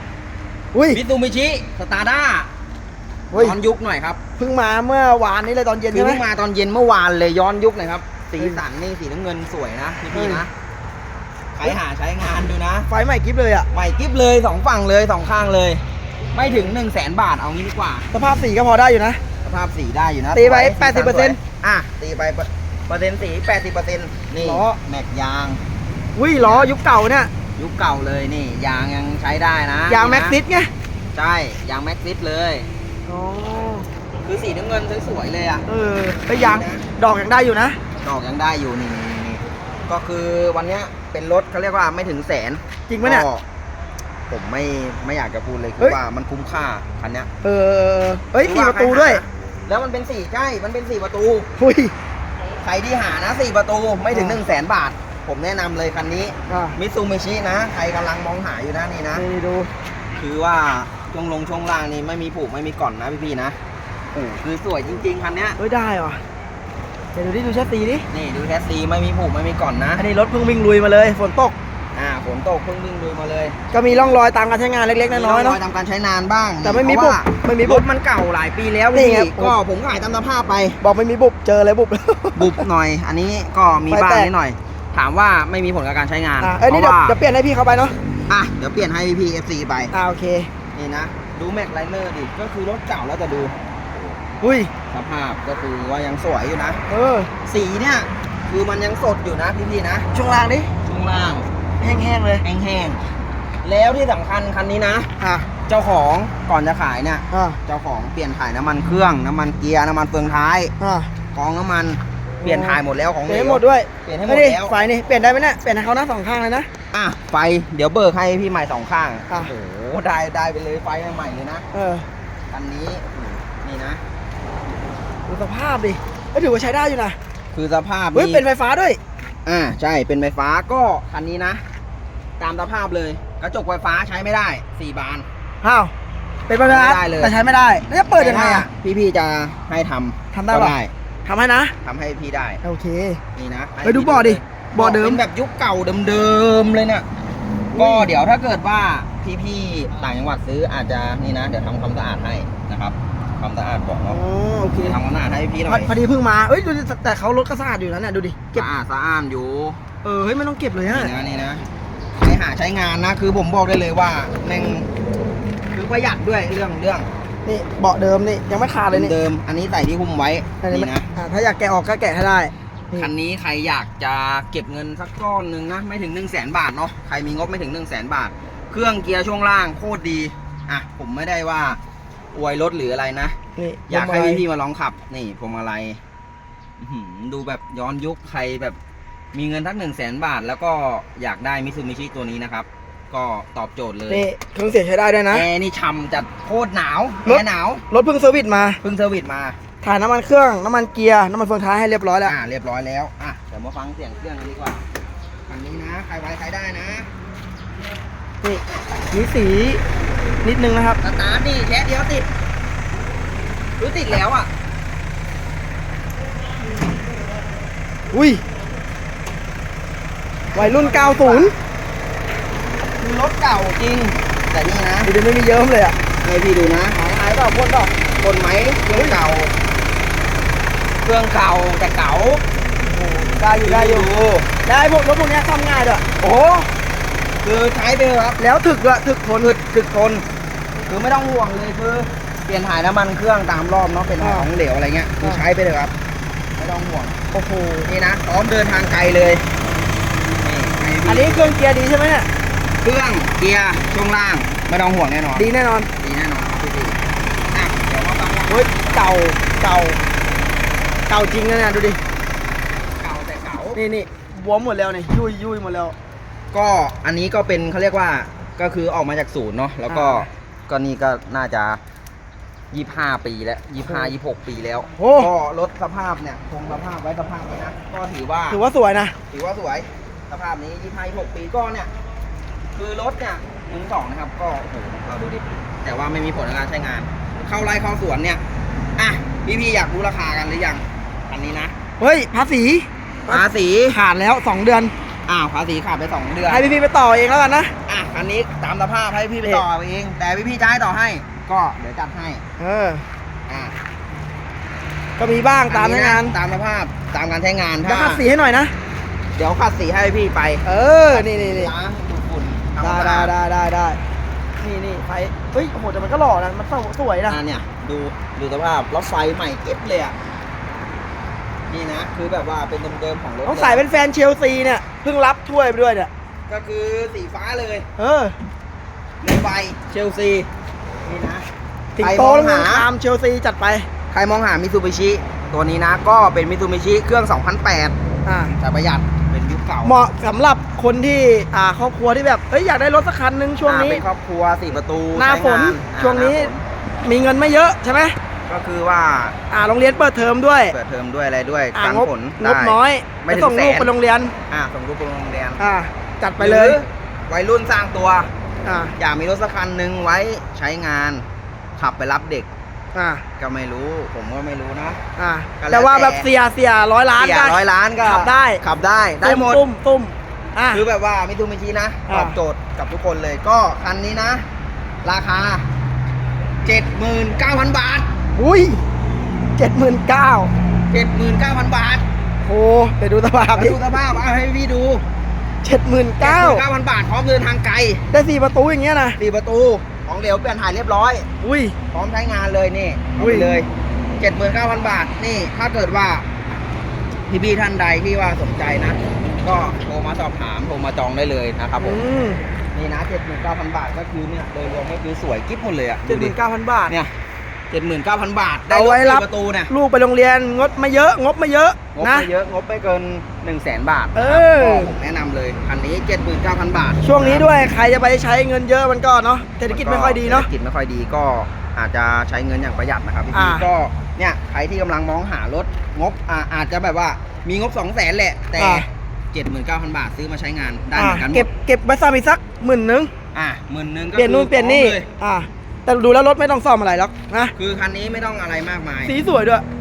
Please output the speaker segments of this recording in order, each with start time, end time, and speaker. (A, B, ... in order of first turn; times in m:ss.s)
0:00.7-0:01.0 A
0:00.9-0:02.5 B
0:03.3-0:03.6 A
0:03.3-0:04.2 B
0:04.4-0:06.2 A
0:05.9-0:10.5 B
0:10.1-0:10.4 A
0:11.5-0:12.9 B
0:12.9-0:13.7 A
0:13.7-0:18.1 B
0:18.1-0:19.2 A
0:19.4-0:25.6 B
0:20.3-0:21.4 A
0:24.4-0:24.8 A
0:26.2-0:27.3 A
0:26.4-0:26.7 B
0:27.6-0:30.4 B
0:29.9-0:30.7 A
0:31.1-0:32.7 B
0:33.1-0:33.9 A
0:34.2-0:35.6 B
0:35.7-0:37.8 A
0:36.3-0:36.8 B
0:38.0-0:43.4 B
0:42.9-0:43.2 A
0:44.3-0:47.3 B
0:47.4-0:49.2 A
0:48.4-0:51.5 B
0:51.6-0:51.9 A
0:52.6-0:59.2 B
0:54.1-0:54.4 A
0:56.5-0:56.8 A
0:59.1-0:59.7 A
1:00.2-1:03.6 B
1:04.1-1:05.6 B
1:05.6-1:06.2 A
1:07.1-1:08.0 A
1:08.1-1:10.0 B
1:10.0-1:11.5 A
1:11.9-1:14.1 B
1:13.7-1:15.6 A
1:15.1-1:20.8 B
1:16.6-1:17.8 A
1:18.9-1:19.6 A
1:20.8-1:22.6 A
1:22.4-1:27.2 B
1:23.9-1:24.3 A
1:26.4-1:27.9 A
1:28.3-1:29.9 B
1:29.9-1:30.5 A
1:30.7-1:34.2 B
1:34.4-1:34.7 A
1:34.9-1:36.8 B
1:36.9-1:37.3 A
1:37.4-1:40.1 B
1:40.1-1:40.7 A
1:40.8-1:41.4 B
1:41.8-1:42.4 A
1:42.4-1:43.0 B
1:43.6-1:45.1 B
1:45.2-1:45.5 A
1:45.7-1:50.7 B
1:47.3-1:47.6 A
1:50.8-1:51.1 A
1:51.3-1:54.8 B
1:52.4-1:56.7 A
1:56.9-2:01.6 B
2:01.7-2:02.0 A
2:02.5-2:04.0 B
2:05.3-2:07.2 A
2:07.5-2:08.4 B
2:08.1-2:09.0 A
2:09.4-2:11.6 B
2:12.4-2:15.3 B
2:15.6-2:15.9 A
2:16.5-2:18.7 A
2:16.6-2:17.3 B
2:18.1-2:20.9 B
2:20.3-2:20.7 A
2:21.2-2:21.7 A
2:21.8-2:22.6 B
2:22.6-2:23.2 A
2:23.3-2:27.0 B
2:23.8-2:25.2 A
2:27.7-2:34.2 B
2:27.7-2:28.1 A
2:34.1-2:35.0 A
2:34.8-2:35.9 B
2:35.7-2:38.6 A
2:38.5-2:39.8 B
2:40.0-2:41.1 A
2:40.9-2:41.6 B
2:42.2-2:44.9 B
2:45.7-2:47.1 B
2:47.4-2:49.1 A
2:48.9-2:51.1 B
2:50.6-2:53.1 A
2:52.9-3:01.8 B
3:02.3-3:03.4 B
3:03.6-3:04.4 A
3:03.9-3:06.0 B
3:06.8-3:08.8 B
3:09.3-3:14.2 B
3:14.1-3:15.4 A
3:15.3-3:17.8 B
3:17.2-3:18.8 A
3:18.8-3:19.6 B
3:19.8-3:22.3 A
3:22.2-3:24.8 B
3:25.5-3:27.1 B
3:28.4-3:29.8 A
3:30.4-3:31.0 A
3:31.0-3:32.3 B
3:33.8-3:34.5 B
3:38.1-3:38.4 A
3:40.5-3:41.5 B
3:40.5-3:41.5 A
3:43.0-3:45.1 B
3:45.0-3:46.0 A
3:46.2-3:47.0 B
3:46.9-3:47.9 A
3:48.2-3:49.5 B
3:51.0-3:52.4 B
3:52.8-3:54.1 A
3:53.6-3:54.5 B
3:54.6-3:56.0 A
3:56.2-3:56.7 B
3:57.4-3:58.4 B
3:58.4-3:59.5 A
3:59.4-4:00.2 B
4:00.9-4:05.9 B
4:04.2-4:04.5 A
4:06.6-4:07.2 B
4:07.3-4:07.9 A
4:07.8-4:09.5 B
4:10.4-4:11.5 B
4:11.0-4:12.3 A
4:12.8-4:17.0 B
4:15.4-4:15.9 A
4:17.5-4:18.8 B
4:18.5-4:20.0 A
4:21.1-4:22.0 A
4:23.0-4:23.8 B
4:23.7-4:25.9 A
4:26.5-4:31.8 B
4:29.9-4:30.3 A
4:32.7-4:38.6 B
4:33.9-4:34.1 A
4:35.0-4:35.3 A
4:38.5-4:39.1 A
4:39.3-4:41.9 B
4:42.7-4:48.4 B
4:49.0-4:51.7 B
4:52.0-4:54.9 A
4:53.3-4:54.0 B
4:55.3-4:56.7 B
4:56.5-4:57.7 A
4:57.8-5:02.4 B
5:02.6-5:03.0 A
5:03.5-5:03.7 B
5:05.2-5:06.4 A
5:05.7-5:08.2 B
5:07.8-5:08.7 A
5:09.4-5:13.3 B
5:10.6-5:11.7 A
5:12.8-5:14.0 A
5:14.6-5:17.4 A
5:17.3-5:20.2 B
5:21.7-5:23.8 B
5:23.4-5:26.1 A
5:26.5-5:27.8 B
5:28.0-5:28.3 A
5:29.2-5:30.5 B
5:31.0-5:31.5 B
5:32.0-5:33.9 A
5:32.0-5:32.9 B
5:34.1-5:40.0 B
5:38.2-5:38.5 A
5:39.8-5:44.0 A
5:43.6-5:46.6 B
5:45.2-5:48.2 A
5:48.5-5:49.4 B
5:49.5-5:50.7 A
5:50.7-5:53.9 B
5:51.7-5:54.3 A
5:54.5-5:55.6 B
5:55.6-5:56.8 A
5:56.4-5:58.3 B
5:58.6-5:58.9 A
5:59.0-6:01.2 B
6:01.8-6:02.5 B
6:02.9-6:03.2 A
6:03.4-6:05.0 B
6:05.2-6:08.6 A
6:05.6-6:06.2 B
6:07.2-6:09.6 B
6:09.2-6:10.8 A
6:10.7-6:14.4 B
6:12.1-6:12.4 A
6:15.0-6:15.6 B
6:16.6-6:18.1 B
6:18.4-6:18.8 A
6:19.6-6:20.5 A
6:20.9-6:22.0 B
6:22.4-6:24.0 A
6:23.5-6:25.0 B
6:25.6-6:26.6 A
6:26.2-6:28.0 B
6:28.1-6:29.2 A
6:29.2-6:31.3 B
6:31.4-6:31.7 A
6:31.9-6:36.2 B
6:33.2-6:33.5 A
6:37.3-6:42.0 B
6:41.8-6:42.4 A
6:42.7-6:46.4 B
6:46.1-6:46.9 A
6:47.7-6:49.7 B
6:48.7-6:52.3 A
6:51.9-6:57.5 B
6:54.1-6:54.9 A
6:57.0-7:00.5 A
6:59.7-7:11.5 B
7:03.3-7:03.6 A
7:08.6-7:08.8 A
7:10.9-7:13.1 A
7:13.3-7:15.1 B
7:14.2-7:17.5 A
7:17.5-7:19.1 B
7:19.0-7:19.6 A